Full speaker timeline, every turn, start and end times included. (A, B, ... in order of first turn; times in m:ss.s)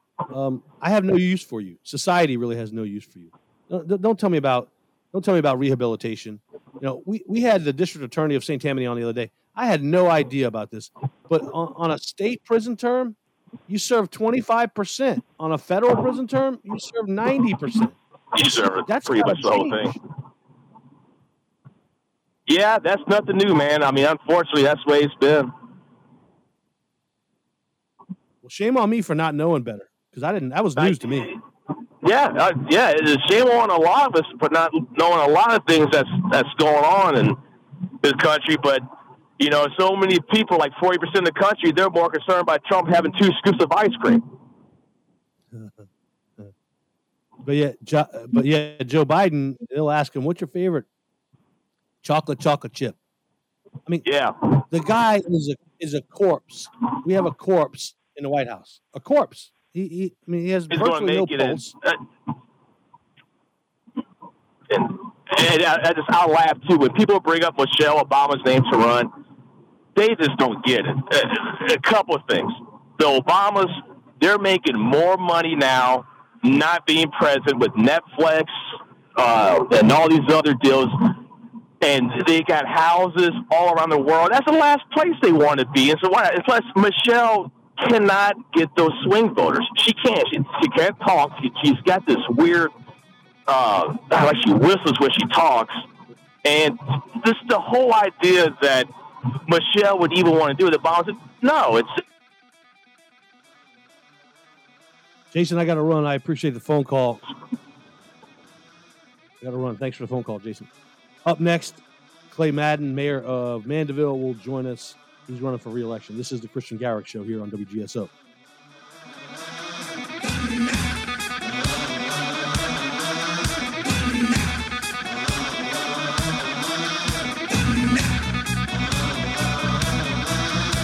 0:00.3-0:13.2 A
0:13.7-0:20.0 A
0:18.3-0:19.9 B
0:22.5-0:25.5 B
0:28.4-0:31.3 A
0:30.8-0:31.4 B
0:32.0-0:37.4 B
0:38.0-0:38.8 B
0:39.4-0:44.2 B
0:45.5-0:45.9 A
0:47.4-0:50.8 A
0:52.0-0:53.0 A
0:54.0-0:54.3 B
0:54.7-1:01.7 A
1:00.7-1:02.0 B
1:04.7-1:09.1 B
1:10.0-1:18.5 B
1:19.2-1:21.2 B
1:21.8-1:32.7 B
1:33.5-1:35.8 B
1:36.4-1:38.9 B
1:39.4-1:42.0 B
1:45.3-1:47.2 A
1:49.4-1:50.7 A
1:51.2-1:58.1 A